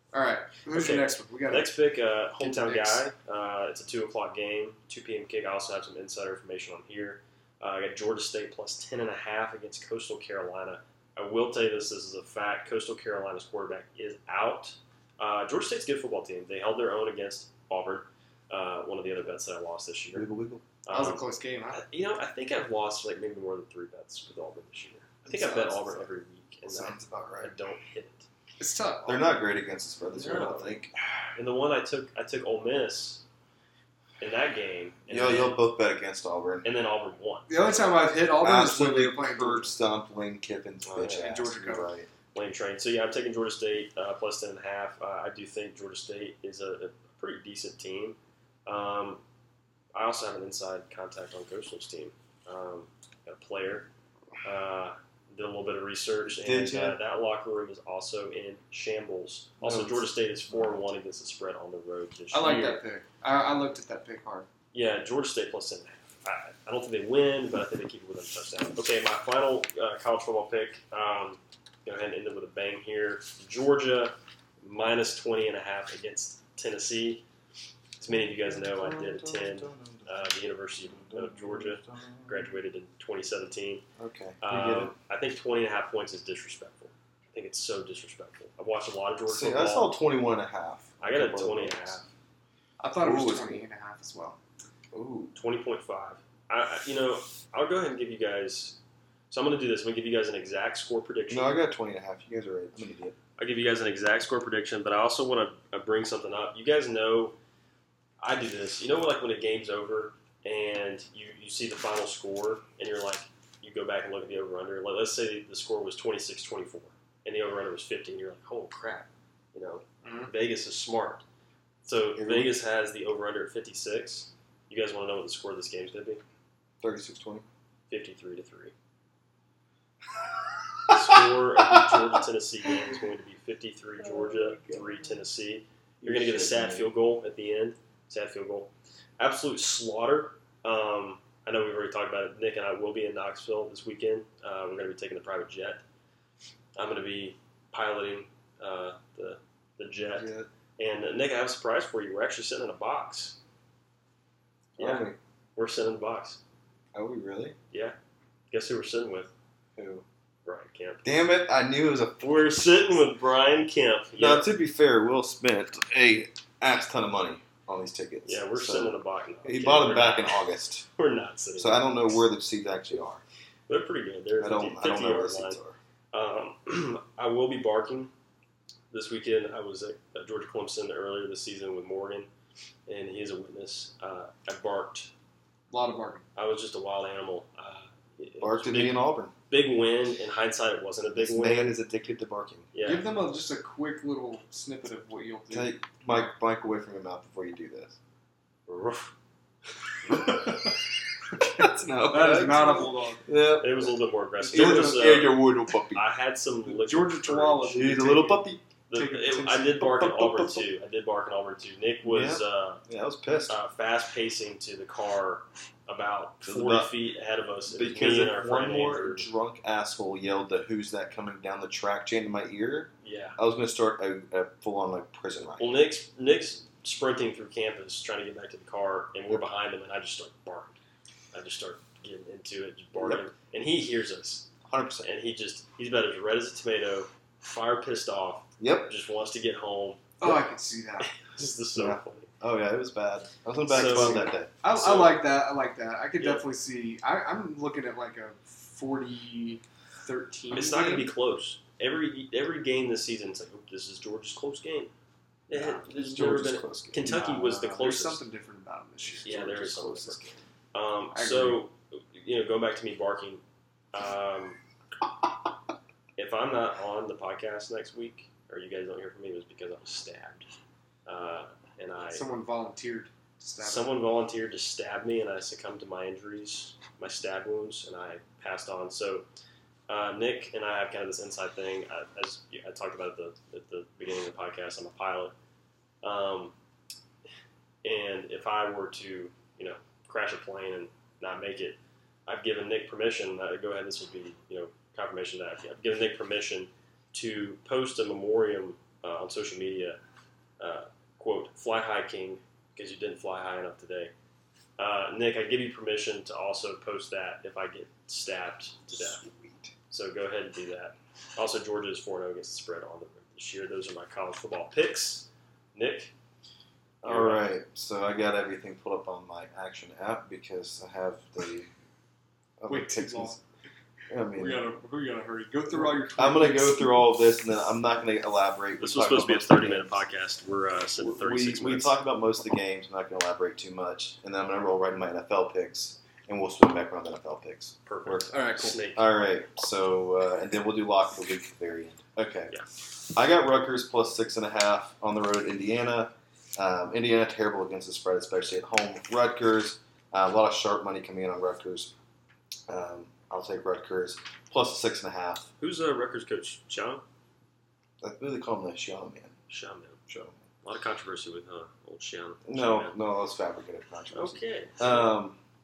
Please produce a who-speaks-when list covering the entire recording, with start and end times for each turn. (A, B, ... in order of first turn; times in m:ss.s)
0:00.1-0:01.7 A
0:00.7-0:20.3 B
0:02.4-0:03.0 A
0:20.1-0:20.6 C
0:20.8-0:28.3 B
0:20.9-0:21.8 A
0:25.3-0:26.0 C
0:26.7-0:27.5 C
0:28.6-0:29.3 A
0:29.1-0:30.9 C
0:30.2-0:30.8 B
0:31.4-0:33.2 B
0:34.2-0:35.6 B
0:35.1-0:36.7 C
0:36.6-0:37.5 B
0:37.5-0:39.7 A
0:38.4-0:42.1 C
0:40.8-0:41.4 B
0:41.1-0:41.9 A
0:42.3-0:49.2 B
0:49.9-0:53.9 B
0:54.4-1:02.8 B
0:56.3-0:57.0 C
0:59.6-1:00.9 C
1:02.3-1:04.5 A
1:04.7-1:17.2 B
1:18.0-1:23.8 B
1:18.1-1:22.6 C
1:24.0-1:24.9 C
1:24.4-1:29.9 B
1:29.3-1:32.0 C
1:31.0-1:32.1 B
1:32.8-1:34.4 A
1:33.0-1:33.6 C
1:34.9-1:35.3 C
1:35.4-1:38.8 B
1:39.3-1:41.6 B
1:41.3-1:43.2 C
1:43.4-1:47.4 B
1:48.2-2:01.2 B
2:00.0-2:00.3 A
2:01.8-2:06.2 B
2:02.2-2:02.6 C
2:06.8-2:07.4 C
2:07.9-2:08.7 B
2:10.2-2:12.3 C
2:10.9-2:25.8 B
2:14.0-2:15.2 C
2:16.0-2:16.9 C
2:26.8-2:33.4 B
2:30.2-2:30.5 C
2:34.8-2:36.4 B
2:34.8-2:35.2 C
2:36.9-2:37.6 C
2:38.5-2:39.3 B
2:39.8-2:40.0 C
2:40.4-2:41.1 B
2:41.0-2:42.4 C
2:42.2-2:44.5 B
2:44.2-2:50.9 C
2:48.2-2:50.5 B
2:51.0-2:51.9 B
2:51.6-2:53.2 C
2:53.7-2:55.6 B
2:54.4-2:55.8 C
2:56.1-2:58.1 B
2:58.9-3:02.3 B
3:02.9-3:05.1 B
3:05.7-3:06.3 A
3:06.4-3:11.7 B
3:08.4-3:09.3 C
3:11.2-3:12.7 C
3:12.7-3:13.1 B
3:12.8-3:15.7 A
3:15.5-3:18.0 C
3:18.7-3:19.1 B
3:20.0-3:20.4 B
3:20.1-3:20.7 C
3:20.2-3:20.7 A
3:21.3-3:24.0 C
3:22.1-3:23.3 A
3:23.6-3:27.8 B
3:24.4-3:25.1 A
3:24.5-3:26.0 C
3:26.7-3:29.8 A
3:27.7-3:28.6 C
3:28.9-3:32.8 B
3:29.8-3:30.7 C
3:32.0-3:33.6 C
3:33.5-3:39.3 B
3:36.4-3:36.9 C
3:37.7-3:45.8 C
3:43.0-3:43.4 B
3:45.6-3:50.8 B
3:51.3-3:54.5 B
3:52.9-3:53.2 C
3:54.6-3:55.1 C
3:55.0-4:00.1 B
3:58.6-3:58.9 C
4:00.2-4:01.1 A
4:01.0-4:02.3 B
4:01.8-4:04.5 C
4:03.7-4:05.2 B
4:04.0-4:11.1 A
4:10.5-4:14.9 B
4:15.5-4:18.2 B
4:15.5-4:15.8 A
4:15.6-4:17.1 C
4:17.0-4:20.3 A
4:19.0-4:19.4 C
4:19.2-4:23.4 B
4:21.1-4:21.6 A
4:23.9-4:24.6 B
4:26.2-4:30.5 B
4:31.1-4:32.2 B
4:32.1-4:33.9 A
4:33.6-4:39.3 B
4:39.9-4:45.3 B
4:46.0-4:46.5 B
4:47.8-5:00.0 B
5:00.6-5:04.1 B
5:04.8-5:09.2 B
5:08.9-5:09.7 C
5:09.9-5:16.1 B
5:17.0-5:21.7 C
5:17.0-5:17.5 B
5:22.6-5:23.4 C
5:22.7-5:23.4 A
5:24.1-5:24.6 C
5:24.3-5:27.0 A
5:25.7-5:30.0 C
5:28.8-5:32.0 B
5:31.0-5:42.6 C
5:37.9-5:39.1 B
5:38.3-5:38.8 A
5:43.1-5:51.9 C
5:52.7-5:55.5 C
5:55.6-5:57.0 B
5:58.0-5:59.4 C
5:59.5-6:00.0 B
6:00.1-6:00.4 C
6:00.6-6:02.9 B
6:02.5-6:05.4 C
6:04.1-6:05.1 B